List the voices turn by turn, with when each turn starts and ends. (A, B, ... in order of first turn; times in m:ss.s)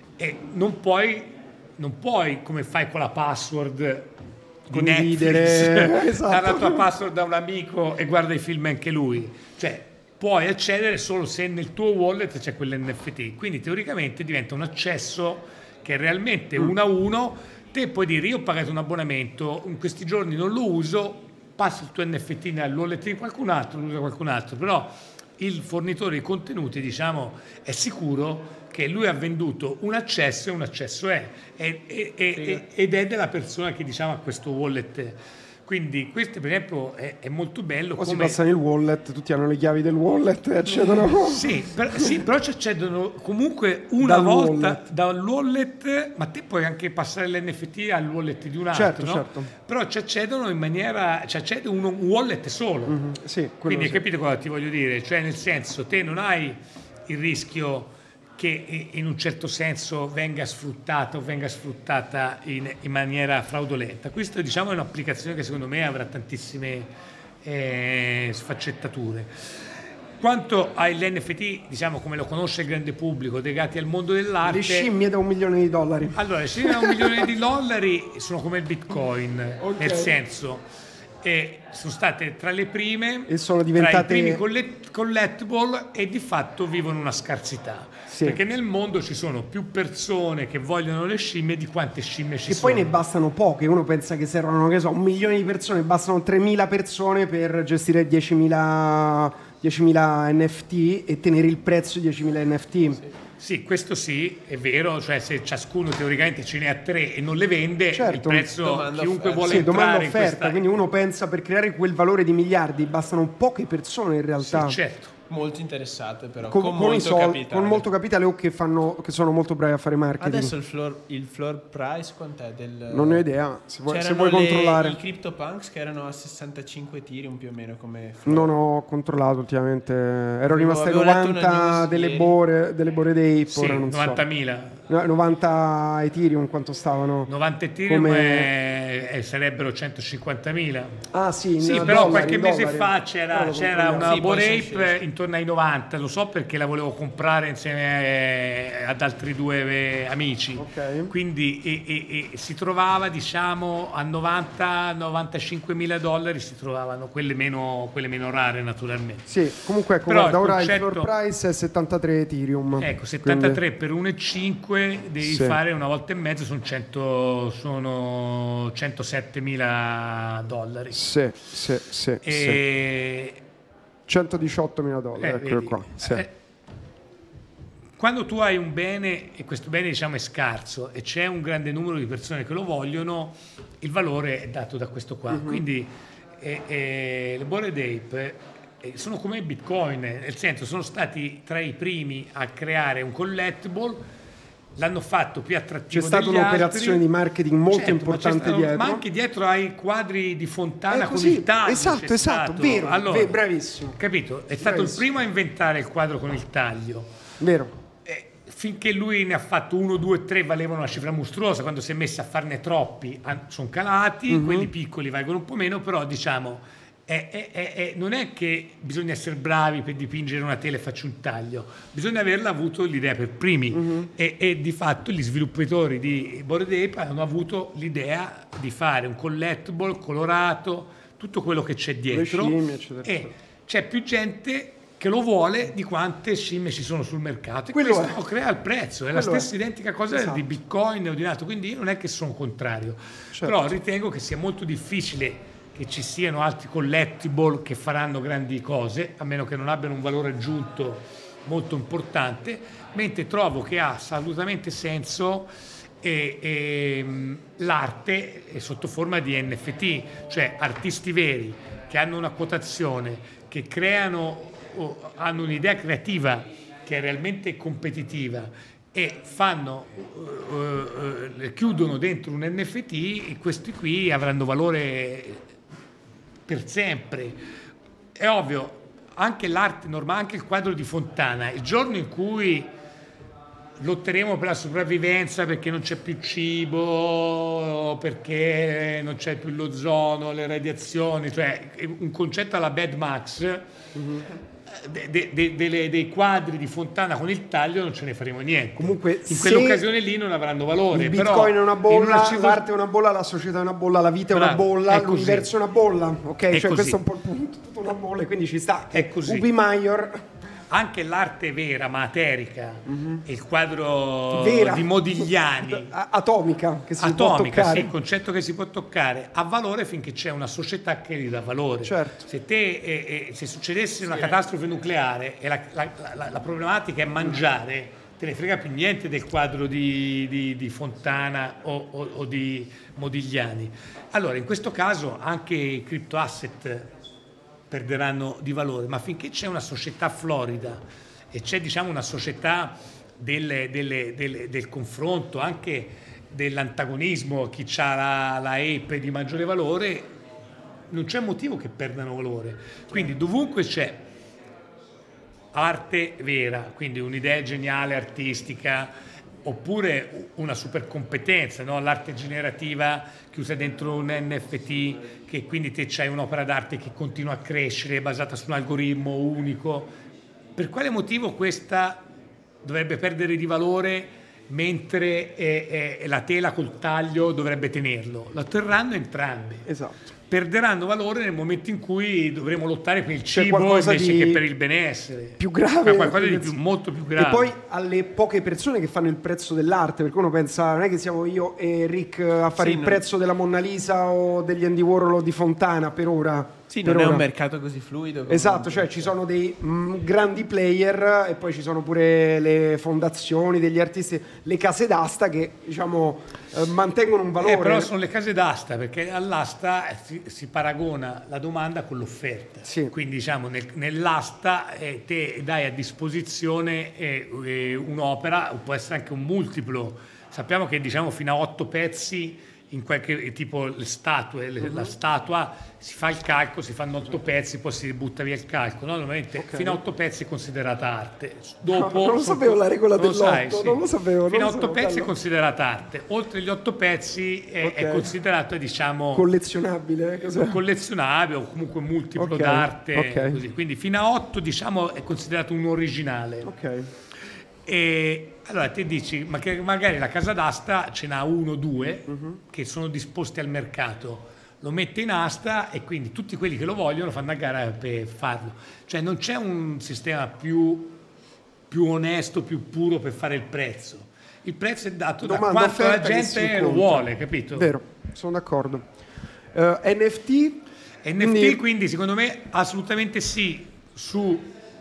0:00.2-0:04.1 A
0:04.7-0:38.4 A
0:04.7-0:06.8 B
0:32.4-0:32.6 C
0:38.0-0:41.5 B
0:41.2-0:53.0 A
0:44.0-0:44.8 B
0:48.7-0:49.5 B
0:52.9-0:54.0 B
0:53.7-1:06.9 A
1:07.4-1:09.4 A
1:10.2-1:14.9 A
1:14.4-1:17.3 B
1:16.2-1:20.7 A
1:19.6-1:20.1 B
1:21.2-1:32.9 A
1:23.3-1:24.4 B
1:28.1-1:28.4 B
1:32.5-1:43.0 B
1:43.4-1:50.7 A
1:47.9-1:48.5 B
1:48.5-1:49.7 C
1:49.4-1:54.8 B
1:54.4-1:55.2 A
1:55.3-1:57.9 C
1:56.5-2:00.5 B
2:00.2-2:03.2 C
2:02.9-2:05.0 B
2:03.9-2:08.5 C
2:08.2-2:14.2 B
2:10.5-2:12.4 C
2:13.5-2:14.8 A
2:14.9-2:17.3 B
2:17.3-2:21.0 A
2:17.9-2:18.5 B
2:21.1-2:24.2 B
2:21.6-2:39.3 A
2:24.0-2:25.0 C
2:30.6-2:31.1 B
2:39.3-2:43.6 B
2:40.1-2:41.1 A
2:42.8-2:51.1 A
2:45.2-2:45.6 B
2:50.9-2:52.6 B
2:52.2-2:53.4 A
2:54.1-2:56.3 B
2:55.2-2:56.3 A
2:58.0-3:14.1 A
3:05.3-3:05.6 B
3:14.8-3:17.0 A
3:15.9-3:19.0 B
3:17.7-3:23.4 A
3:20.9-3:24.0 B
3:24.0-3:27.1 A
3:24.6-3:25.0 B
3:27.4-3:27.7 B
3:28.0-4:35.5 A
3:34.3-3:34.7 B
3:43.7-3:44.1 B
3:52.1-3:53.3 B
3:57.7-3:58.2 B
3:59.1-3:59.5 B
4:00.1-4:00.4 B
4:03.4-4:03.8 B
4:36.5-4:37.4 A
4:38.2-4:42.7 A
4:43.8-4:53.7 A
4:54.0-4:54.3 B
4:54.7-5:02.6 A
4:58.8-4:59.9 B
5:00.9-5:10.3 B
5:04.3-5:05.5 A
5:06.5-5:07.0 A
5:08.9-5:09.5 A
5:10.7-5:15.9 A
5:12.9-5:13.2 B
5:14.3-5:17.9 B
5:17.0-5:36.9 A
5:21.8-5:22.3 B
5:37.7-5:50.1 A
5:50.9-5:54.0 A
5:55.5-5:58.9 A
5:59.4-6:10.0 A
6:10.6-6:12.1 A
6:12.6-6:19.7 A
6:19.7-6:20.1 B
6:20.3-6:27.5 A
6:23.3-6:24.4 B
6:25.4-6:26.6 B
6:27.2-6:37.3 B
6:32.6-6:33.0 C
6:36.7-6:39.1 C
6:38.3-6:47.9 B
6:47.4-7:19.3 A
6:52.7-6:52.9 B
7:04.6-7:04.9 B
7:09.4-7:09.8 B
7:11.7-7:15.1 B
7:17.6-7:18.1 B
7:19.1-7:20.6 B
7:20.3-7:26.5 A
7:22.2-7:23.4 B
7:26.4-7:26.9 B
7:27.6-7:41.0 A
7:32.1-7:32.4 B
7:41.7-7:47.7 A
7:45.2-7:48.9 B
7:49.5-7:51.6 B
7:51.0-7:54.5 A